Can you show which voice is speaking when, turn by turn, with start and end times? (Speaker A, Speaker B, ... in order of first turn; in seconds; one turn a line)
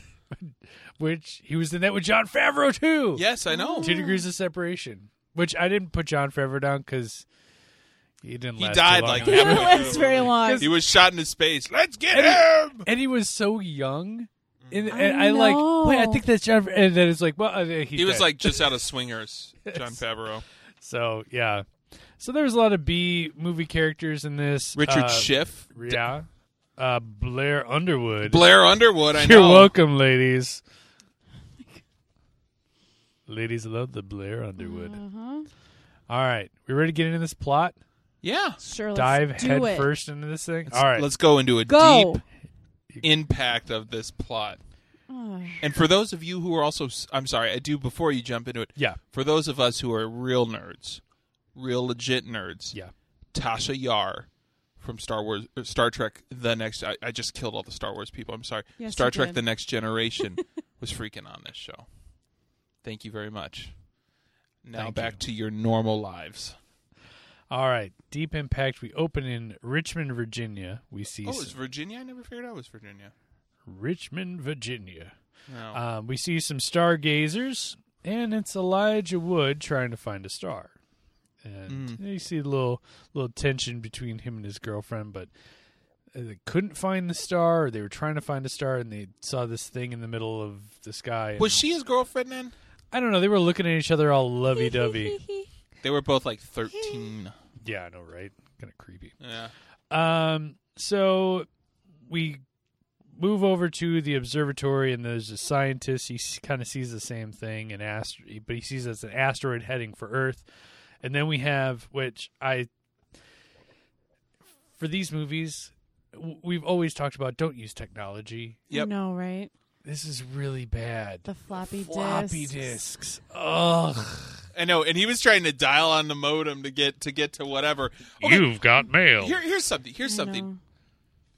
Speaker A: 0.3-3.2
Speaker B: 3.1-4.0
Speaker C: 3.5-4.2
Speaker A: 3.8-7.2
Speaker A: 8.2-10.7
Speaker B: 8.6-12.9
Speaker C: 9.2-10.7
Speaker A: 12.1-18.8
Speaker B: 14.6-14.9
Speaker C: 14.9-16.2
Speaker B: 17.9-20.4
Speaker A: 19.7-20.0
Speaker A: 20.8-28.5
Speaker B: 24.8-26.1
Speaker B: 28.2-29.7
Speaker A: 29.1-30.6
Speaker A: 33.3-35.0
Speaker C: 34.6-35.5
Speaker A: 36.1-37.8
Speaker B: 38.2-38.6
Speaker C: 38.6-39.9
Speaker A: 38.9-41.1
Speaker B: 40.7-42.2
Speaker C: 41.7-42.2
Speaker B: 43.0-44.6
Speaker C: 45.1-45.6
Speaker B: 45.6-51.0
Speaker B: 51.5-52.8
Speaker B: 53.3-61.9
Speaker C: 58.8-59.4
Speaker B: 62.8-63.7
Speaker B: 64.6-66.5
Speaker A: 64.7-65.2
Speaker A: 67.5-71.5
Speaker B: 71.2-73.1
Speaker A: 73.7-75.1
Speaker B: 75.5-75.8
Speaker A: 75.7-80.7
Speaker A: 81.4-85.3
Speaker B: 81.7-82.0
Speaker A: 86.1-91.6
Speaker B: 91.4-92.5
Speaker A: 92.9-95.2
Speaker C: 94.5-95.5
Speaker B: 95.8-97.3
Speaker A: 97.6-99.1
Speaker B: 99.2-99.5
Speaker A: 99.9-101.5
Speaker A: 102.0-102.4
Speaker A: 103.1-110.4
Speaker A: 111.0-112.7
Speaker A: 114.8-118.6
Speaker C: 118.7-119.5
Speaker A: 119.8-124.5
Speaker C: 121.2-122.8
Speaker B: 124.5-128.5
Speaker A: 128.2-129.4
Speaker B: 129.2-130.5
Speaker C: 130.0-130.6